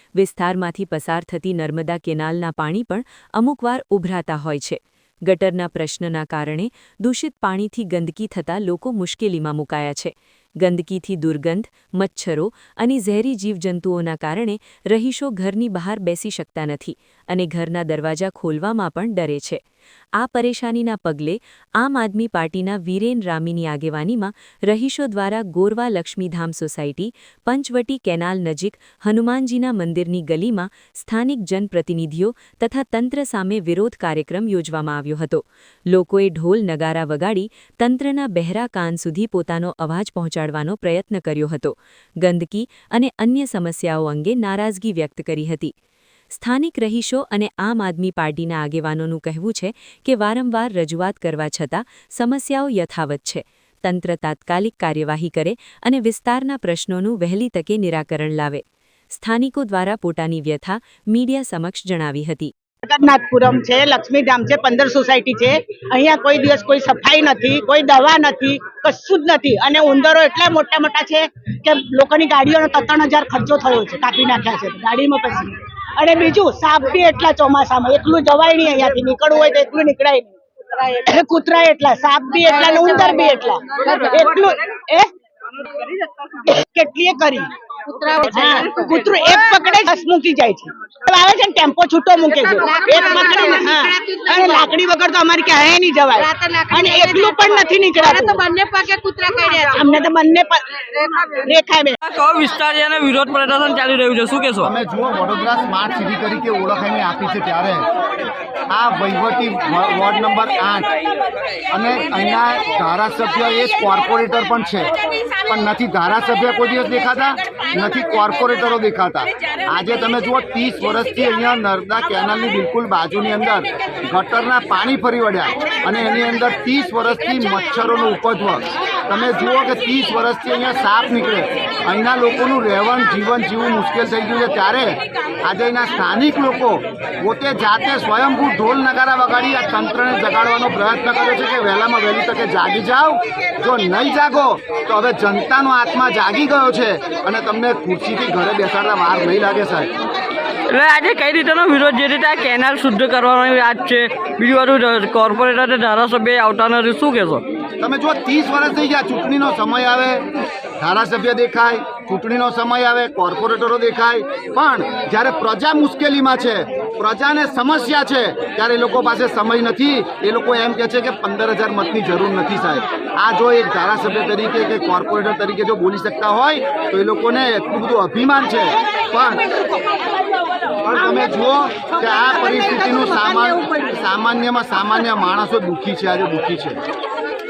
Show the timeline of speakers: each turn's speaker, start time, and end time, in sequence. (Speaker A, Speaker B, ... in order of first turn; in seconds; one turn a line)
Speaker A: 0.1-19.6
Speaker A: 20.2-45.7
Speaker A: 46.3-62.5
Speaker B: 62.8-85.1
Speaker B: 86.4-87.5
Speaker C: 87.9-88.6
Speaker B: 88.2-98.4
Speaker C: 92.5-94.6
Speaker C: 96.4-99.5
Speaker B: 99.7-100.8
Speaker B: 101.3-102.0
Speaker D: 102.1-104.7
Speaker E: 104.6-107.9
Speaker E: 108.7-110.9
Speaker E: 111.7-114.9
Speaker E: 115.5-149.9
Speaker D: 150.7-157.4
Speaker E: 157.8-160.2
Speaker E: 160.8-179.4
Speaker E: 180.8-186.8